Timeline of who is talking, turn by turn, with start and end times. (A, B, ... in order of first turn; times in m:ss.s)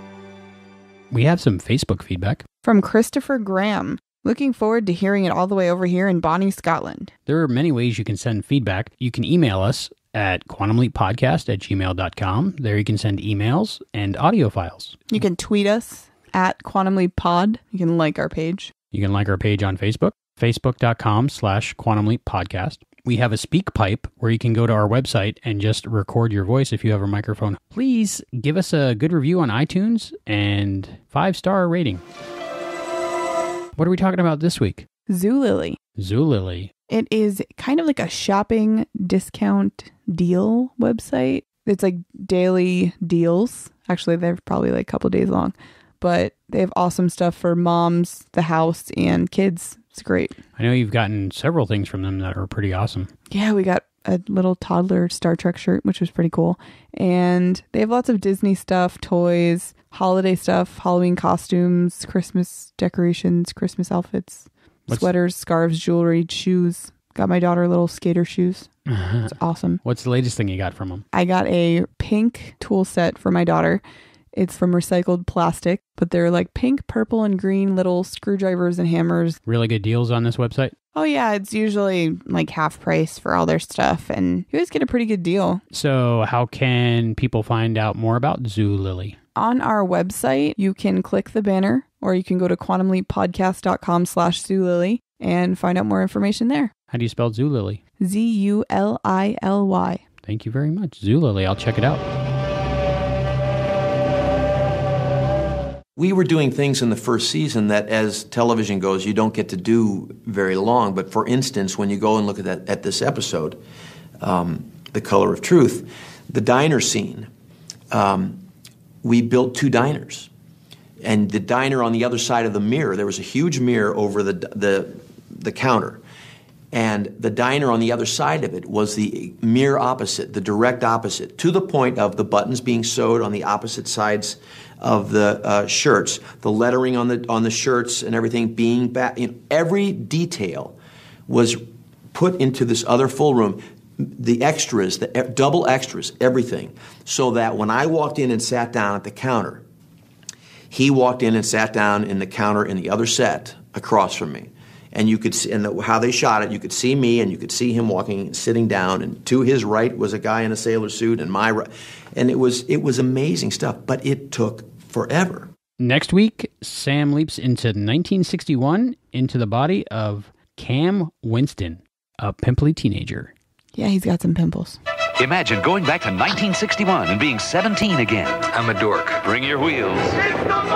0:01.1-0:02.4 A
0:02.6-0:07.1 B
0:07.3-0:15.1 A
0:15.1-0:18.7 B
0:18.9-0:32.0 A
0:33.8-0:34.9 A
0:35.1-0:35.8 B
0:36.0-0:36.7 A
0:36.9-0:50.4 B
0:50.6-0:53.1 A
0:53.3-1:08.7 B
1:08.9-1:11.0 A
1:09.3-1:09.8 B
1:11.1-1:13.8 B
1:14.3-1:19.4 B
1:19.5-1:20.7 A
1:20.9-1:25.6 B
1:25.7-1:29.2 A
1:29.4-1:36.7 B
1:36.9-1:37.8 A
1:38.0-1:40.0 B
1:40.3-1:42.1 A
1:46.0-1:53.6 C
1:54.2-1:57.3 C
1:57.9-1:58.4 C
1:59.0-2:00.3 C
2:01.0-2:06.0 C
2:06.7-2:20.8 C
2:21.3-2:29.6 C
2:30.7-2:45.5 C
2:45.8-2:53.3 A
2:53.8-2:54.8 B
2:55.2-3:00.4 D